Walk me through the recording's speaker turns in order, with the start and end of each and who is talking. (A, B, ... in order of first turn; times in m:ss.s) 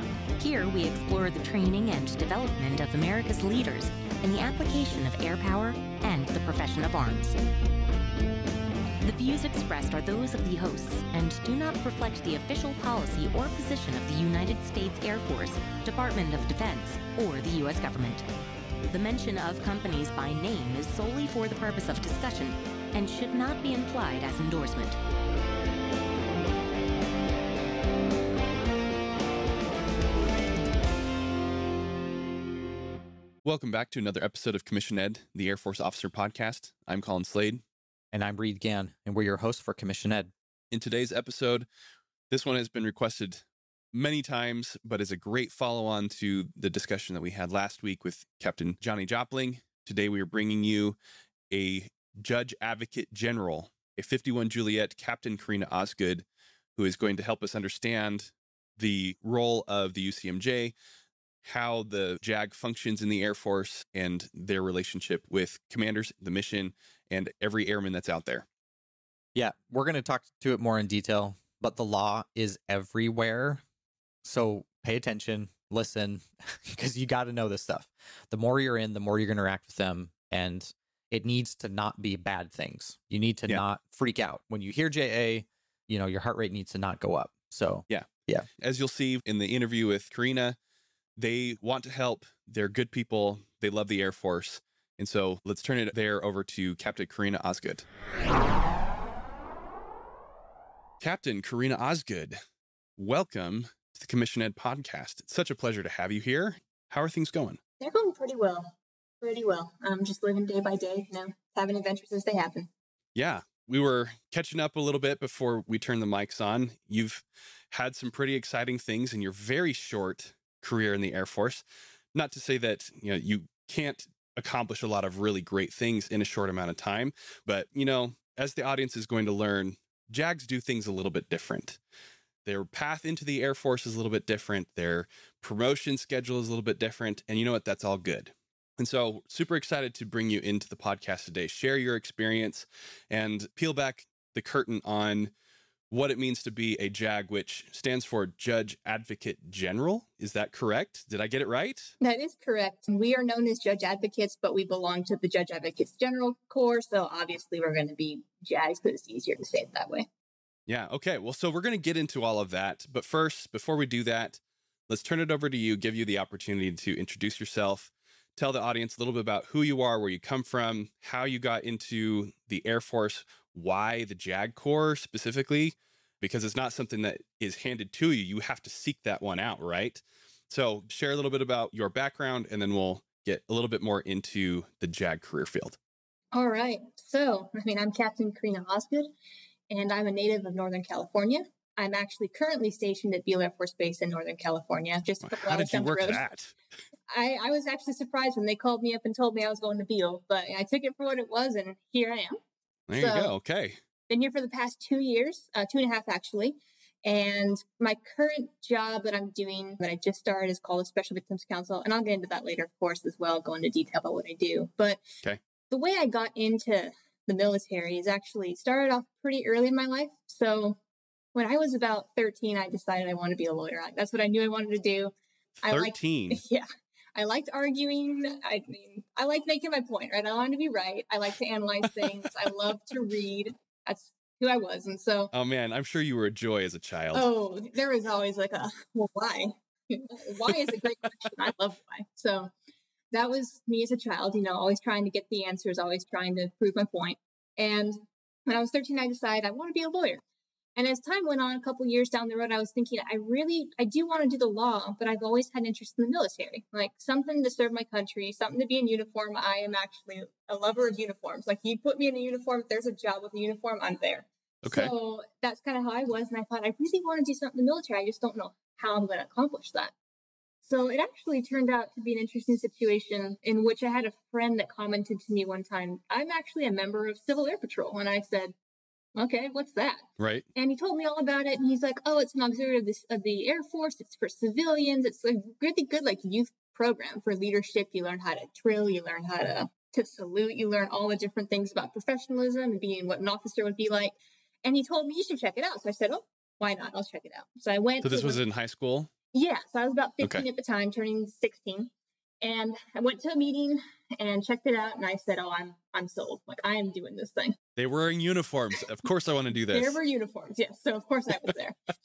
0:00.4-0:07.4 A
0:09.0-0:18.2 A
0:18.9-0:25.0 A
0:33.4-0:37.6 B
0:38.1-0:40.3 C
0:40.7-0:41.7 B
0:42.3-0:51.0 B
0:51.5-0:56.2 B
0:56.8-1:00.7 B
1:01.4-1:08.5 B
1:09.4-1:13.6 C
1:14.2-1:28.5 C
1:27.9-1:30.6 B
1:31.2-1:37.8 B
1:41.0-1:42.4 B
1:43.0-1:47.6 B
1:47.8-1:52.7 D
1:53.2-2:11.8 B
2:12.4-2:25.3 B
2:25.9-2:32.0 B
2:32.0-2:40.1 D
2:40.7-3:05.8 B
3:06.3-3:09.1 D
3:09.7-3:16.2 D
3:15.2-3:16.6 B
3:17.1-3:22.4 D
3:22.9-3:23.8 B
3:23.0-3:23.3 D
3:24.1-3:35.0 D
3:35.7-3:40.8 D
3:41.4-3:55.3 D
3:45.6-3:46.4 B
3:55.3-3:57.3 B
3:57.1-4:02.5 D
4:03.1-4:10.2 D
4:10.8-4:29.9 D
4:24.6-4:24.9 B
4:30.6-4:38.5 D
4:39.2-4:58.4 D
4:40.2-4:40.5 B
4:58.0-4:59.1 B
4:59.3-5:01.9 D
5:02.4-5:07.6 D
5:07.8-5:10.0 B
5:09.7-5:11.8 D